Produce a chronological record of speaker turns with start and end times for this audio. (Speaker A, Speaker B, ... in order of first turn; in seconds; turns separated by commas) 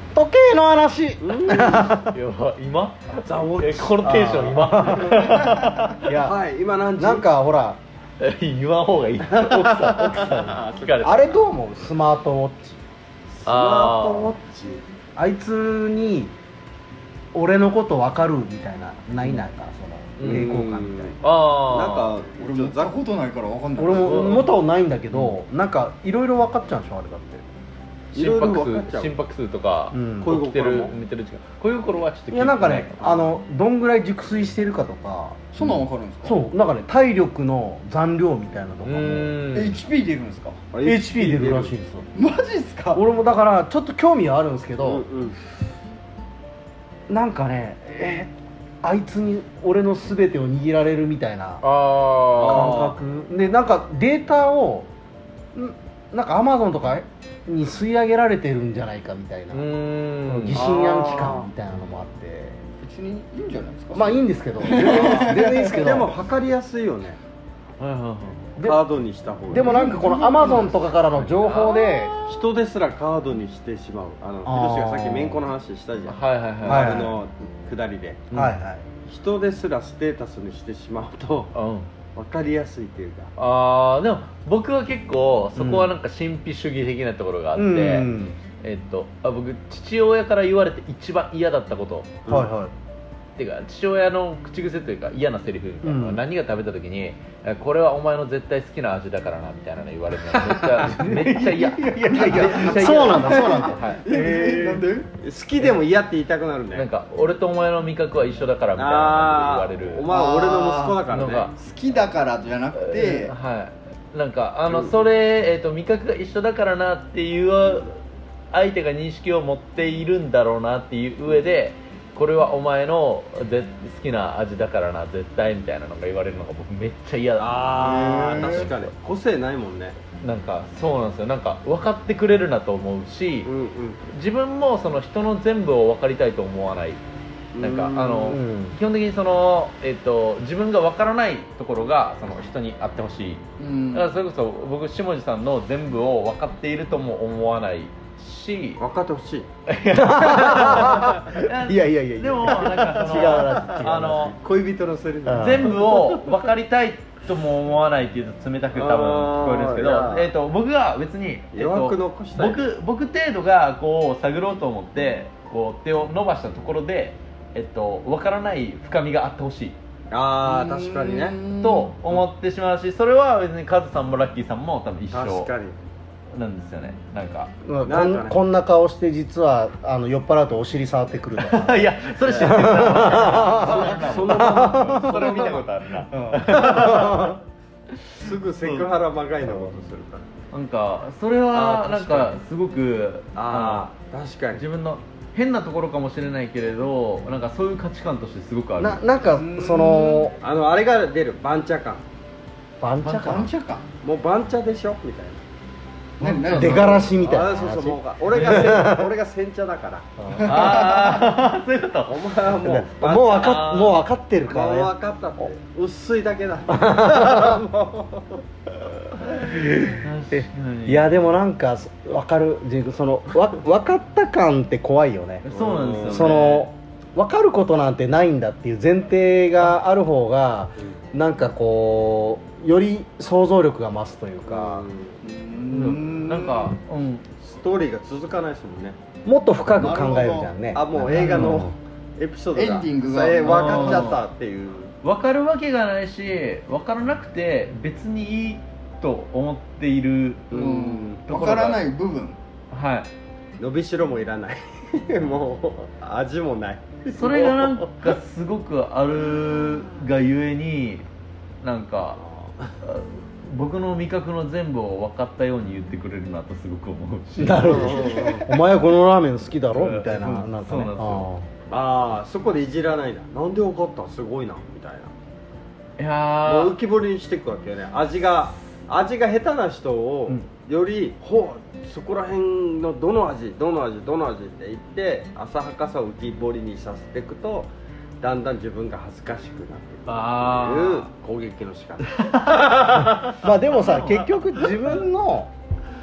Speaker A: 0.1-2.2, Speaker B: 1.2-1.8, Speaker C: 1.7-6.0, Speaker B: 3.2-4.2, Speaker A: 4.0-6.4, Speaker B: 6.1-7.3, Speaker A: 7.0-7.8, Speaker C: 8.2-11.4, Speaker B: 9.3-11.3, Speaker A: 11.0-12.8, Speaker B: 13.4-14.8, Speaker C: 13.4-14.3, Speaker A: 15.2-16.3, Speaker A: 17.3-21.2, Speaker C: 20.2-20.5, Speaker B: 20.2-21.2, Speaker C: 21.2-22.1, Speaker B: 21.7-22.9, Speaker D: 22.3-24.5, Speaker A: 23.8-27.5, Speaker C: 24.1-24.5, Speaker B: 28.1-29.1, Speaker C: 28.1-33.2, Speaker A: 29.9-30.3, Speaker B: 30.2-30.9, Speaker A: 32.3-39.4, Speaker D: 35.5-36.4, Speaker C: 38.8-39.8, Speaker D: 39.5-40.6, Speaker B: 40.7-41.7, Speaker A: 40.8-42.1, Speaker D: 42.1-43.0, Speaker A: 42.9-45.1, Speaker B: 44.8-45.4, Speaker A: 47.1-51.6, Speaker C: 51.6-52.9, Speaker A: 52.4-54.9, Speaker B: 52.4-52.9, Speaker A: 55.5-59.7, Speaker C: 59.5-60.7, Speaker A: 60.2-62.6, Speaker B: 60.5-61.5, Speaker D: 62.8-65.9, Speaker A: 63.9-66.2, Speaker B: 64.7-67.2, Speaker C: 67.8-68.5, Speaker B: 68.6-69.8, Speaker A: 69.5-72.2, Speaker D: 69.5-70.9, Speaker C: 71.1-71.8, Speaker D: 71.5-72.5, Speaker B: 72.3-78.3, Speaker A: 74.5-75.4, Speaker C: 76.1-77.0, Speaker A: 76.7-77.2, Speaker A: 78.3-78.9, Speaker B: 79.1-81.5, Speaker C: 81.5-81.9, Speaker B: 82.2-83.3, Speaker C: 83.4-92.2, Speaker A: 85.6-85.9, Speaker A: 87.5-88.4, Speaker A: 92.3-92.7, Speaker C: 93.4-104.0, Speaker A: 95.8-96.2, Speaker A: 100.5-103.8, Speaker D: 101.1-105.1, Speaker B: 104.0-106.9, Speaker C: 106.7-110.1, Speaker B: 108.8-111.5, Speaker D: 110.1-111.0, Speaker C: 111.1-111.5, Speaker D: 111.5-113.3, Speaker C: 112.7-118.0, Speaker B: 114.7-115.0, Speaker C: 118.5-128.9, Speaker B: 127.4-130.0, Speaker D: 127.8-128.7, Speaker C: 130.2-133.5, Speaker B: 133.5-134.0, Speaker C: 134.1-137.0, Speaker B: 137.5-138.4, Speaker C: 137.6-143.4, Speaker A: 138.3-138.8, Speaker D: 143.6-144.1, Speaker C: 143.9-148.8, Speaker B: 148.8-149.5, Speaker C: 149.7-154.4, Speaker A: 149.9-154.4, Speaker B: 150.5-151.1, Speaker B: 153.1-156.3, Speaker A: 155.3-155.8, Speaker C: 155.4-169.8, Speaker B: 158.7-160.3, Speaker B: 161.5-162.6, Speaker B: 170.1-171.4, Speaker D: 170.4-172.2, Speaker C: 171.6-175.5, Speaker B: 175.1-175.8, Speaker C: 176.3-177.5, Speaker A: 177.7-185.6, Speaker B: 177.9-178.4, Speaker C: 181.4-187.3, Speaker B: 182.2-182.8, Speaker B: 183.4-185.5, Speaker A: 186.3-187.4, Speaker B: 186.5-187.4, Speaker B: 188.2-190.3, Speaker C: 190.5-193.9, Speaker B: 191.5-192.3, Speaker B: 193.4-194.6, Speaker C: 194.5-199.0, Speaker A: 198.8-200.4, Speaker D: 199.3-200.3, Speaker B: 200.4-202.0, Speaker A: 202.8-203.5, Speaker C: 203.0-203.3, Speaker D: 203.2-203.9, Speaker B: 204.0-205.4, Speaker D: 206.2-207.2, Speaker A: 206.2-209.1, Speaker C: 206.2-207.0, Speaker B: 207.1-210.1, Speaker A: 210.2-210.8, Speaker D: 210.3-211.3, Speaker C: 210.4-212.3, Speaker B: 212.1-213.9, Speaker A: 212.6-214.9, Speaker C: 213.4-214.0, Speaker B: 214.5-218.4, Speaker A: 216.7-217.6, Speaker C: 219.2-221.1, Speaker A: 219.4-225.4, Speaker C: 225.4-226.7, Speaker B: 225.5-226.5, Speaker A: 226.1-234.9, Speaker B: 234.5-235.2, Speaker D: 235.2-236.8, Speaker C: 235.7-237.2, Speaker B: 237.4-239.0, Speaker A: 239.2-241.7, Speaker D: 239.8-240.5, Speaker B: 240.7-244.9, Speaker C: 241.1-241.7, Speaker D: 242.6-244.1, Speaker C: 243.4-244.2, Speaker C: 245.0-250.5, Speaker B: 250.5-251.2, Speaker D: 250.5-252.4, Speaker C: 251.3-251.8, Speaker C: 252.7-253.1, Speaker B: 253.6-258.2, Speaker C: 257.1-261.1, Speaker C: 261.6-262.2, Speaker B: 262.2-262.7, Speaker C: 262.8-268.0, Speaker A: 267.4-271.5, Speaker B: 267.6-268.5, Speaker D: 267.9-268.4, Speaker C: 269.7-271.3, Speaker B: 271.7-275.1, Speaker C: 276.0-276.8, Speaker B: 276.5-287.7, Speaker B: 288.2-294.7, Speaker C: 290.1-291.1, Speaker C: 292.2-292.5, Speaker A: 293.4-295.5